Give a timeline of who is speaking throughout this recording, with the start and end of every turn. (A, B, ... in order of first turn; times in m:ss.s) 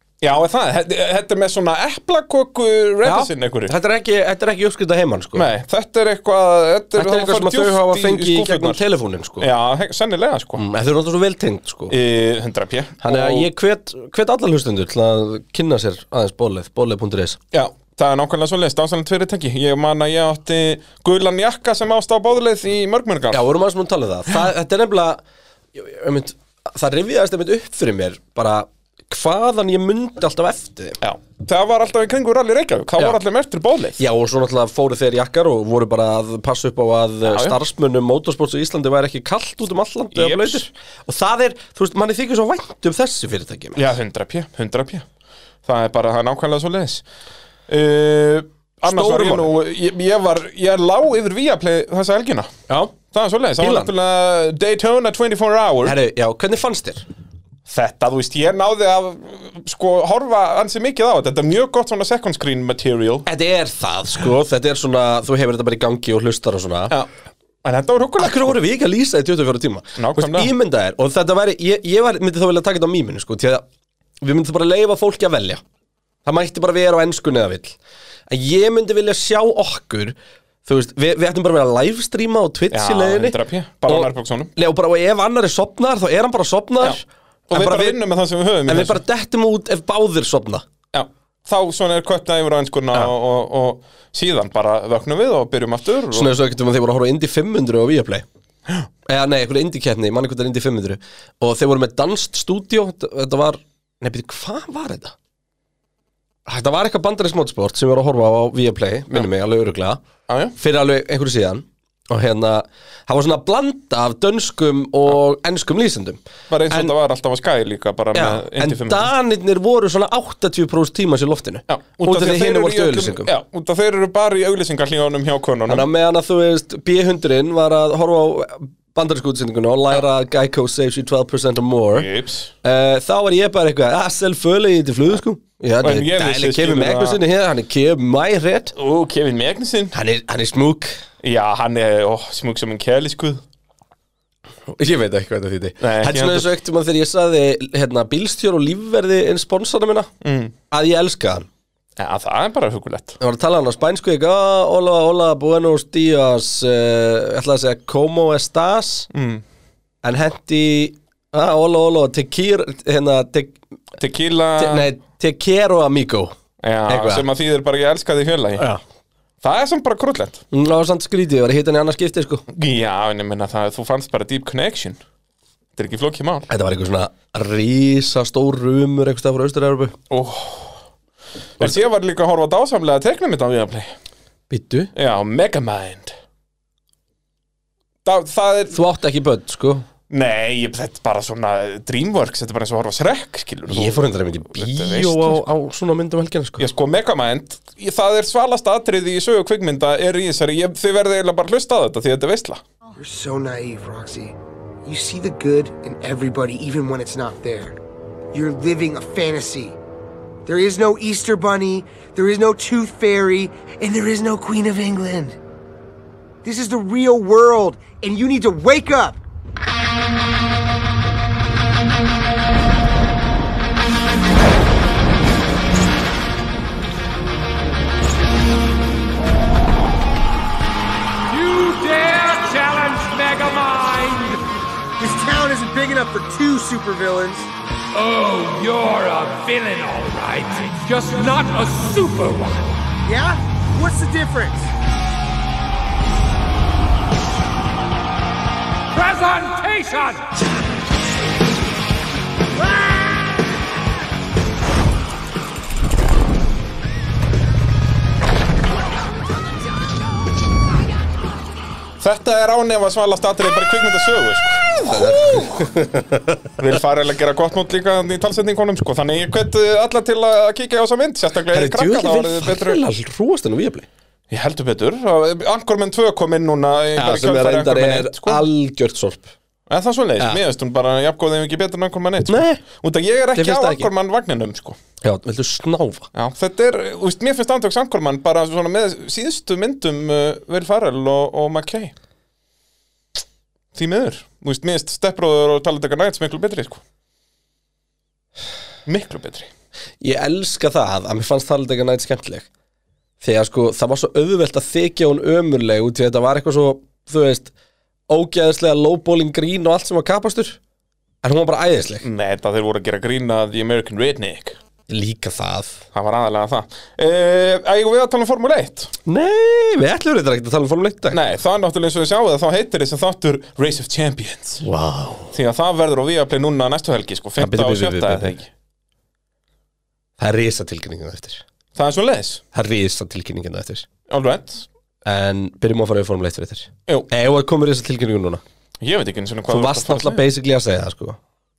0:00.2-0:03.7 A
0:03.0-0:05.5 B
0:05.3-0:08.8 A
0:07.0-0:09.5 B
0:09.4-0:10.6 A
0:10.6-0:11.9 B
0:11.9-0:13.5 A
0:13.0-0:17.4 B
0:17.5-0:23.4 A
0:23.3-0:25.2 B
0:25.7-0:31.0 B
0:31.0-0:34.0 A
0:34.0-0:43.8 B
0:37.2-0:37.6 A
0:40.1-0:40.6 A
0:43.7-0:45.0 A
0:45.6-0:47.0 A
0:47.7-0:52.5 A
0:48.8-0:49.5 B
0:52.7-0:52.9 B
0:53.0-0:55.9 A
0:53.6-0:53.9 B
0:55.8-0:57.1 B
0:57.7-1:03.3 A
1:03.2-1:06.9 B
1:07.6-1:08.6 A
1:08.2-1:13.6 B
1:10.0-1:10.5 A
1:14.2-1:15.6 B
1:16.2-1:17.8 B
1:18.3-1:28.0 B
1:22.7-1:24.5 A
1:27.5-1:29.0 A
1:28.7-1:30.6 B
1:30.9-1:36.3 A
1:36.1-1:38.2 B
1:39.0-1:45.1 B
1:46.4-1:50.0 B
1:50.3-1:50.5 A
1:50.6-1:56.9 B
1:56.5-1:59.1 A
1:58.1-2:03.3 B
2:01.7-2:05.9 A
2:05.7-2:12.1 B
2:11.9-2:12.5 A
2:12.6-2:18.7 B
2:15.8-2:17.2 A
2:18.7-2:19.9 A
2:19.9-2:21.0 B
2:21.2-2:23.4 A
2:24.7-2:30.1 B
2:25.8-2:26.5 A
2:30.2-2:30.5 A
2:30.7-2:31.5 B
2:32.0-2:33.2 A
2:33.2-2:39.1 B
2:39.1-2:39.4 A
2:40.0-2:43.6 B
2:44.0-2:44.9 A
2:44.6-2:46.3 B
2:46.6-2:48.6 A
2:46.9-2:47.2 B
2:49.4-2:50.4 A
2:50.5-2:52.4 B
2:52.5-2:55.0 A
2:55.8-2:56.5 A
2:56.5-3:00.0 B
3:00.1-3:00.7 A
3:01.6-3:03.9 A
3:04.5-3:04.9 B
3:04.9-3:06.1 A
3:08.0-3:08.8 A
3:08.7-3:09.8 B
3:10.1-3:15.4 A
3:13.7-3:16.6 B
3:16.6-3:22.6 A
3:23.0-3:27.8 C
3:28.3-3:29.8 C
3:30.4-3:35.4 C
3:36.4-3:39.2 C
3:51.3-3:54.5 D
3:55.0-3:57.5 C
3:57.9-4:02.8 D
4:03.0-4:04.7 C
4:08.9-4:10.4 D
4:22.0-4:25.6 A
4:24.8-4:26.4 B
4:26.6-4:32.8 A
4:31.5-4:33.9 B
4:34.3-4:38.4 A
4:37.0-4:39.3 B
4:39.7-4:44.8 A
4:42.3-4:42.6 B
4:43.3-4:43.9 B
4:45.0-4:46.1 B
4:46.1-4:51.9 A
4:53.7-4:56.8 A
4:58.8-4:59.5 A
5:00.0-5:02.5 B
5:03.2-5:07.5 B
5:08.1-5:10.6 B
5:11.2-5:12.0 B
5:12.0-5:14.6 A
5:14.9-5:15.8 B
5:15.9-5:18.9 A
5:19.0-5:21.2 B
5:21.1-5:24.6 A
5:24.6-5:25.3 B
5:25.3-5:28.5 A
5:27.4-5:28.3 B
5:30.2-5:31.4 B
5:31.7-5:32.4 A
5:32.5-5:33.9 B
5:34.1-5:34.7 A
5:35.0-5:38.4 B
5:38.8-5:40.2 A
5:39.5-5:41.2 B